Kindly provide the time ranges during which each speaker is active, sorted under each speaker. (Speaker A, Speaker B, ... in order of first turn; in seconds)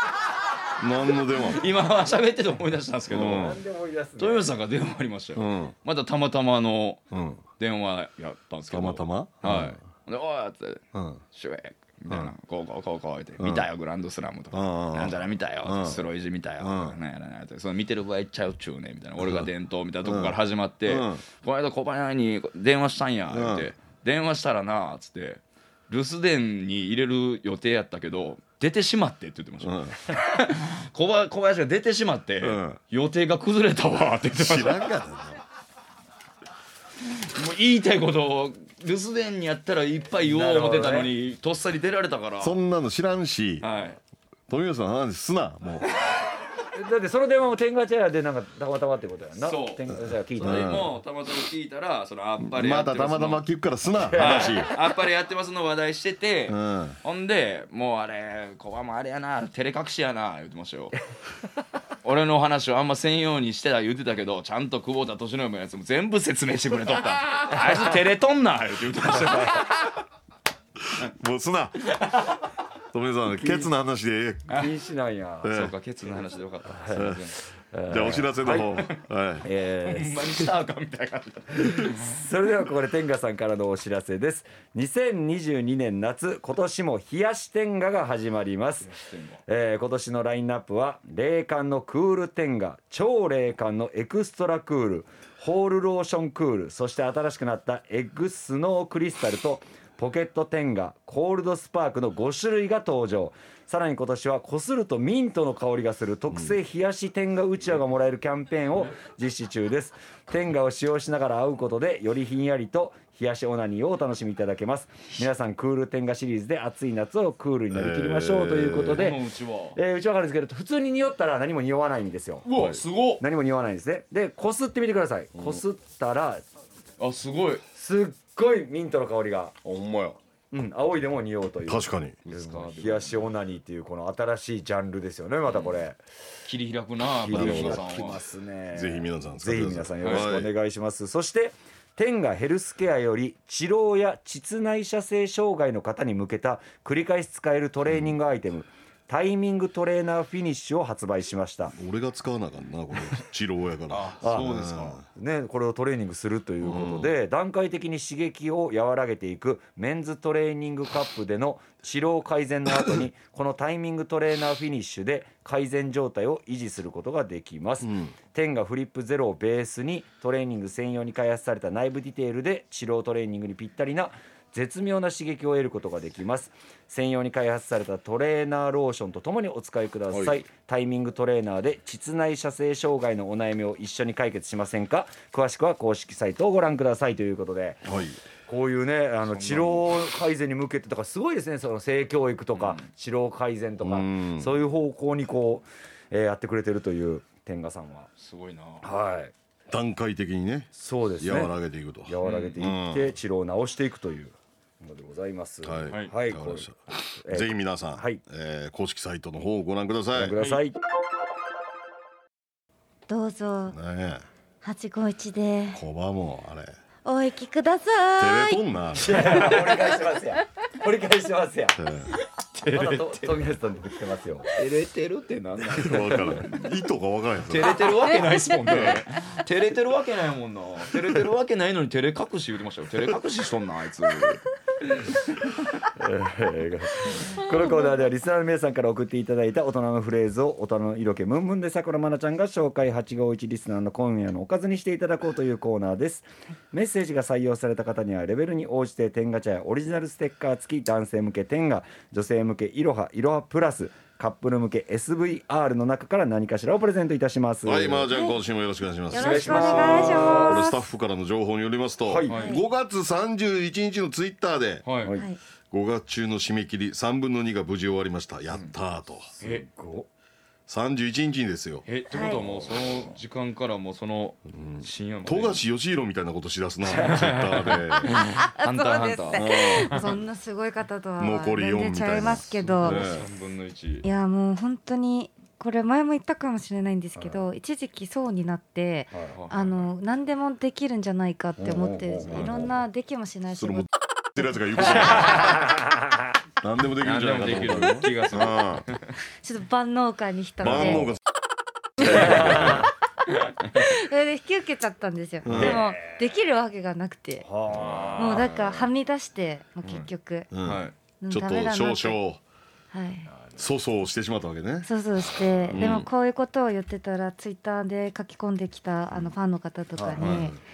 Speaker A: 0.8-1.7, 3.1-3.6, 5.3-5.8, 7.1-7.4, 8.7-9.8, 10.9-11.2, 13.4-13.7, 14.5-16.1, 16.6-17.0, 19.2-19.5, 20.1-21.2, 23.3-23.7, 29.6-30.0, 32.4-32.8, 34.3-35.4, 42.4-43.7, 44.5-45.9, 50.4-50.9, 52.4-54.7, 56.5-57.0, 70.9-71.8, 72.9-74.5, 75.4-75.7, 76.9-77.2, 77.9-79.5, 117.7-119.0, 122.5-122.8, 125.3-125.6, 129.6-130.2, 131.7-132.2, 137.3-138.1, 138.7-140.5, 147.9-148.1, 151.7-155.1, 156.6-157.1, 167.8-168.1, 187.8-188.2, 193.8-194.5, 199.7-203.1, 205.6-210.4, 213.7-214.2, 215.7-216.7, 218.2-219.3, 221.8-222.1, 225.7-227.7, 228.7-229.0, 257.7-264.9, 265.7-269.3, 270.7-271.9, 274.5-278.2, 279.4-280.0, 281.2-283.3, 293.6-295.7, 296.6-298.9, 300.6-301.2, 302.0-302.8, 305.4-305.8, 310.5-312.4, 313.6-314.9, 315.7-316.1, 320.2-320.6
Speaker B: 1.4-3.6, 4.2-7.0, 7.6-34.9, 37.1-42.6, 43.6-44.0, 49.4-53.5, 54.2-61.0, 62.0-70.0, 71.9-72.3, 75.5-77.4, 79.8-82.2, 88.8-89.4, 118.8-119.8, 122.5-123.2, 127.0-127.6, 132.3-133.3, 136.4-138.2, 140.0-140.3, 153.9-155.0, 189.3-189.9, 192.5-192.9, 198.2-198.9, 202.2-202.6, 210.4-210.6, 222.6-223.4, 224.5-226.6, 227.5-234.4, 259.2-260.5, 262.2-262.6, 264.9-265.2, 271.9-275.6, 276.9-280.2, 282.6-284.1, 289.3-289.9, 292.3-292.6, 297.0-299.2, 302.4-302.8, 307.7-308.9, 309.8-310.1, 310.6-310.9, 320.2-320.5
Speaker C: 3.1-4.5, 40.2-41.1, 46.7-50.8, 54.0-54.7, 67.5-67.9, 69.2-69.5, 73.3-73.7, 74.5-75.5, 76.7-77.1, 77.7-78.8, 79.4-80.5, 81.5-89.0, 89.5-122.5, 123.2-126.4, 127.7-129.6, 130.5-136.0, 137.2-151.8, 154.2-154.6, 155.2-187.9, 188.5-198.1, 198.8-199.3, 200.8-201.6, 202.1-206.7, 207.2-208.2, 210.1-210.8, 218.9-221.8, 222.7-224.5, 225.9-226.5, 235.9-258.1, 259.1-260.6, 262.0-262.5, 265.0-265.3, 269.3-270.1, 287.2-287.4, 289.1-289.4, 291.6-292.8, 294.8-296.2, 302.0-302.9, 305.5-306.2, 307.4-308.6, 313.3-313.6, 319.9-320.3
Speaker D: 213.1-213.8, 214.6-215.8, 217.1-218.6, 227.6-228.7, 258.1-258.4, 259.1-260.9, 262.4-262.6, 265.1-265.4, 272.1-272.4, 278.0-283.0, 284.0-293.9, 299.4-301.1, 302.0-302.4, 303.7-307.5, 308.1-310.5, 311.2-312.2, 312.9-313.3, 314.9-320.6